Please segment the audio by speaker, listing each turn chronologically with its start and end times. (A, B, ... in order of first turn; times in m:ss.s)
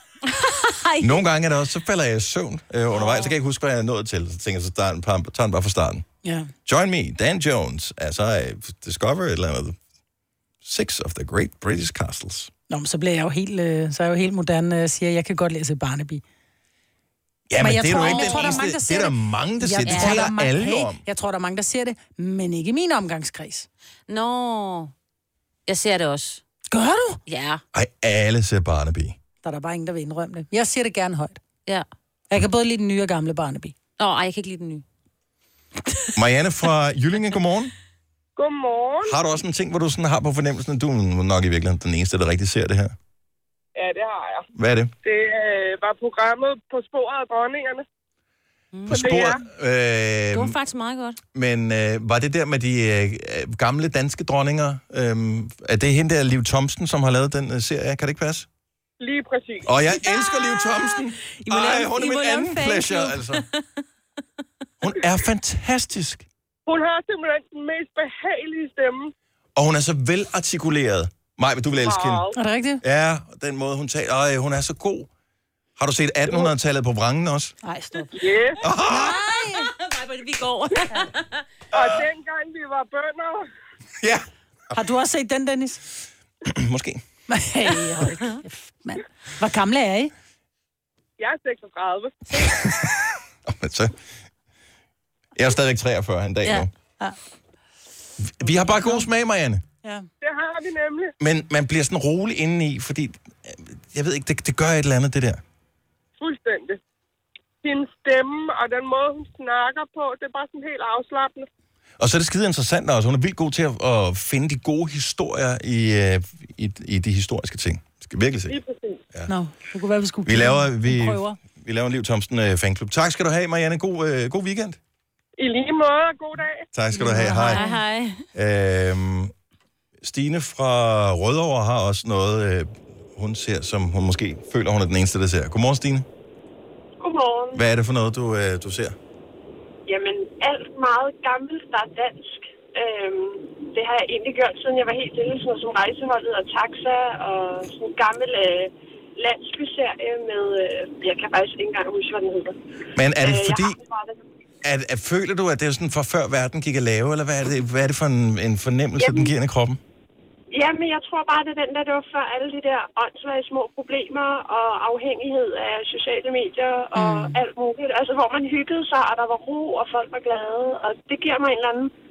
0:00.3-0:01.2 A
0:01.0-0:06.0 B
0:03.0-0:03.3 A
0:06.2-0:06.5 C
0:06.7-0:09.8 B
0:10.6-0:12.5 B
0:12.7-0:16.2 C
0:17.5-0:21.0 B
0:17.6-0:23.7 C
0:18.0-0:18.6 A
0:19.9-0:20.3 A
0:24.1-0:24.9 A
0:25.7-0:26.4 A
0:26.7-0:27.2 C
0:27.3-0:27.6 A
0:27.7-0:29.2 B
0:29.4-0:31.4 C
0:32.3-0:33.7 C
0:34.0-0:34.8 A
0:36.2-0:37.7 B
0:38.4-0:39.2 D
0:39.0-0:43.0 B
0:43.8-0:44.5 D
0:44.5-0:44.9 B
0:45.0-0:47.9 D
0:48.7-0:49.1 A
0:48.9-0:50.6 B
0:48.9-0:49.4 D
0:50.3-0:51.2 A
0:51.3-0:58.5 B
0:59.0-0:59.7 D
0:59.6-1:03.4 B
1:00.1-1:03.6 A
1:04.8-1:06.3 B
1:06.7-1:09.1 D
1:09.6-1:12.3 B
1:11.7-1:12.4 D
1:12.4-1:12.8 C
1:12.8-1:15.1 B
1:15.8-1:17.6 B
1:17.6-1:18.2 C
1:18.2-1:18.6 D
1:18.6-1:19.2 B
1:18.9-1:19.7 C
1:19.4-1:21.4 A
1:21.7-1:23.5 D
1:21.8-1:22.0 B
1:24.0-1:24.3 B
1:24.7-1:25.8 C
1:26.4-1:27.0 B
1:27.3-1:30.1 C
1:31.2-1:32.5 D
1:32.4-1:32.9 B
1:33.5-1:34.0 B
1:35.4-1:36.7 B
1:38.2-1:39.6 B
1:38.5-1:39.0 C
1:40.2-1:41.1 D
1:41.2-1:45.4 B
1:46.2-1:46.8 D
1:47.6-1:51.5 D
1:52.0-1:58.6 B
1:58.5-1:59.0 D
1:59.3-2:01.4 C
2:00.3-2:04.8 B
2:05.4-2:06.7 D
2:06.7-2:07.6 B
2:06.9-2:07.8 C
2:07.3-2:08.2 A
2:08.4-2:09.3 B
2:10.0-2:16.1 B
2:17.0-2:17.6 E
2:17.6-2:19.0 B
2:19.9-2:32.6 E
2:33.0-2:33.8 B
2:33.2-2:34.2 E
2:34.6-2:39.8 B
2:39.0-2:39.3 E
2:40.5-2:51.9 E
2:47.0-2:47.3 C